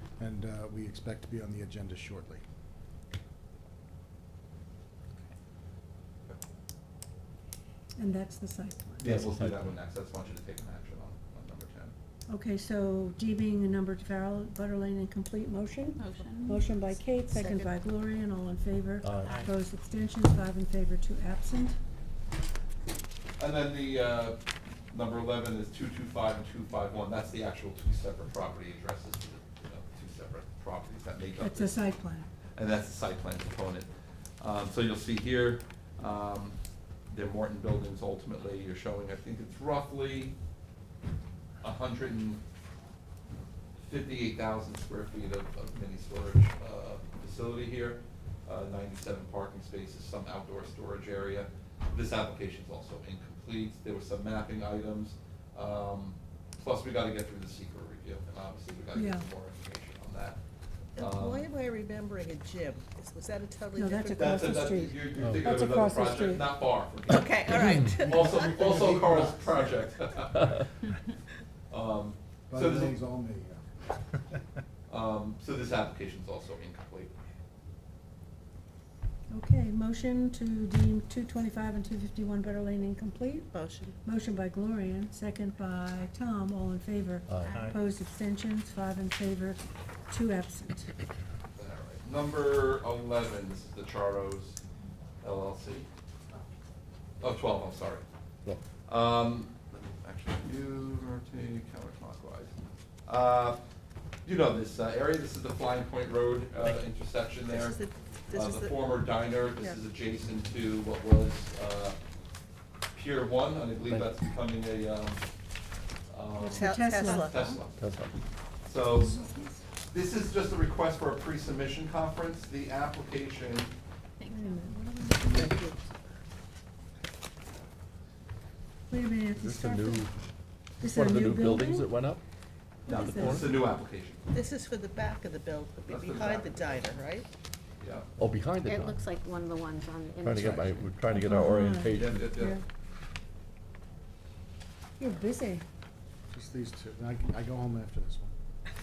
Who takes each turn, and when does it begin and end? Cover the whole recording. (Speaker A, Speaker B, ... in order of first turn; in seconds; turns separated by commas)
Speaker A: 0.2-2.4, Speaker B: 8.0-9.1, Speaker C: 9.0-11.9, Speaker D: 9.0-9.8, Speaker B: 12.3-21.8, Speaker E: 16.0-16.8, Speaker F: 17.3-17.7, Speaker D: 19.0-19.4, Speaker E: 19.2-19.5, Speaker C: 23.4-31.8, Speaker B: 31.4-32.3, Speaker C: 32.5-33.9, Speaker C: 34.4-36.6, Speaker C: 37.1-40.4, Speaker C: 41.6-42.4, Speaker C: 43.8-60.4, Speaker B: 58.9-59.2, Speaker C: 61.0-61.5, Speaker F: 61.0-65.1, Speaker B: 63.8-66.6, Speaker C: 64.1-70.7, Speaker D: 65.2-65.5, Speaker F: 67.1-69.3, Speaker D: 67.5-67.9, Speaker A: 68.1-69.5, Speaker C: 71.7-73.0, Speaker A: 72.5-73.7, Speaker C: 74.9-77.1, Speaker B: 79.3-83.5, Speaker F: 83.5-84.0, Speaker B: 84.0-90.9, Speaker D: 87.3-87.6, Speaker C: 91.6-94.6, Speaker C: 95.2-95.9, Speaker C: 97.2-98.0, Speaker C: 98.9-102.5, Speaker C: 103.1-103.6, Speaker C: 104.2-107.8, Speaker F: 107.5-108.9, Speaker C: 108.3-112.0, Speaker C: 112.9-115.2, Speaker D: 113.9-114.1, Speaker C: 116.1-117.8, Speaker B: 116.4-117.3, Speaker F: 116.5-117.6, Speaker D: 117.8-118.2, Speaker C: 118.6-119.2, Speaker B: 119.0-119.6, Speaker C: 119.9-123.7, Speaker E: 124.2-125.3, Speaker B: 124.3-125.4, Speaker F: 125.3-125.8, Speaker B: 128.9-130.1, Speaker D: 129.4-130.1, Speaker B: 130.8-131.9, Speaker D: 130.8-132.2, Speaker B: 132.8-133.7, Speaker C: 132.9-134.2, Speaker D: 133.1-133.5, Speaker F: 134.3-137.3, Speaker C: 135.9-137.0, Speaker C: 137.8-138.1, Speaker D: 138.2-139.0, Speaker G: 138.6-140.8, Speaker D: 140.2-142.3, Speaker B: 141.1-142.6, Speaker C: 141.9-142.6, Speaker B: 145.0-145.6, Speaker A: 146.3-148.3